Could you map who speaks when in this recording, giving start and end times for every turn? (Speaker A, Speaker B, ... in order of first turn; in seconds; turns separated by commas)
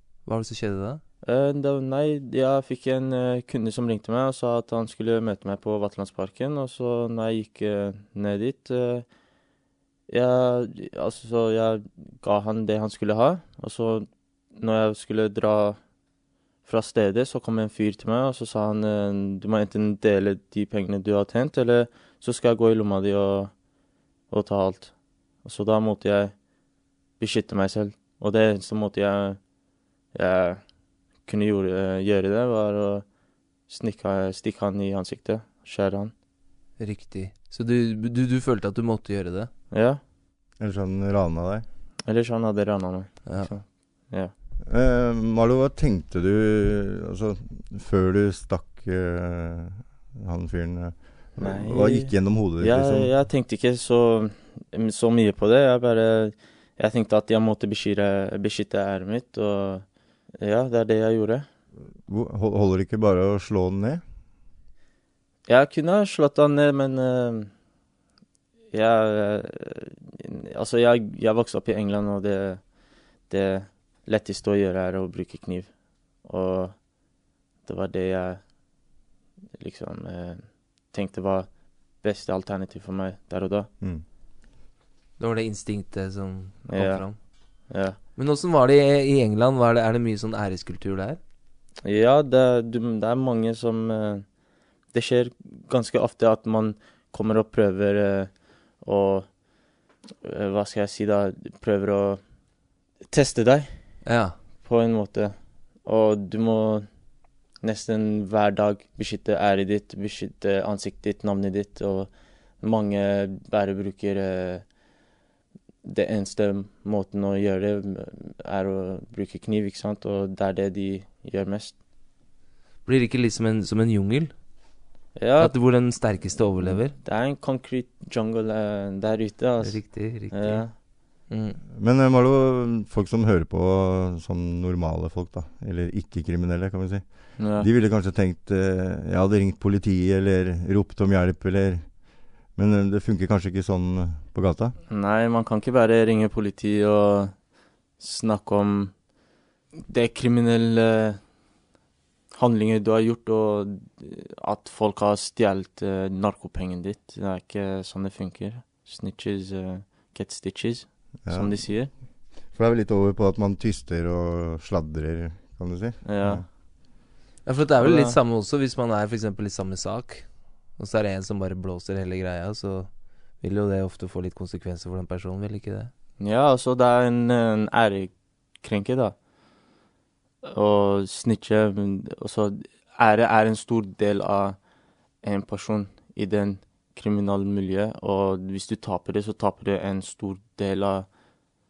Speaker A: 0.3-1.0, Speaker B: 1.2-9.2, Speaker B: 10.1-15.8, Speaker B: 16.6-23.7, Speaker B: 24.3-26.5, Speaker B: 27.2-29.6, Speaker B: 30.1-36.1, Speaker A: 36.8-39.5, Speaker B: 39.7-40.0, Speaker C: 40.6-41.6, Speaker B: 42.0-44.3, Speaker C: 44.7-53.1, Speaker B: 51.4-61.5, Speaker C: 62.0-64.0, Speaker B: 65.5-67.5, Speaker B: 68.7-77.0, Speaker B: 77.6-78.6, Speaker B: 79.5-83.7, Speaker A: 85.2-91.2, Speaker B: 86.7-88.0, Speaker B: 91.8-99.7, Speaker B: 100.2-104.0, Speaker A: 104.0-104.4, Speaker B: 104.6-107.0, Speaker B: 107.6-114.8, Speaker B: 115.8-121.8, Speaker A: 122.8-124.4, Speaker B: 125.2-130.7, Speaker A: 125.4-126.9, Speaker A: 129.6-131.6, Speaker C: 131.7-144.8, Speaker B: 137.4-137.7, Speaker B: 144.9-149.1, Speaker B: 149.8-151.3, Speaker B: 152.3-161.9, Speaker C: 161.2-166.4, Speaker B: 166.1-166.4, Speaker A: 167.4-175.9, Speaker B: 167.8-168.2, Speaker B: 176.2-179.2, Speaker B: 180.4-191.1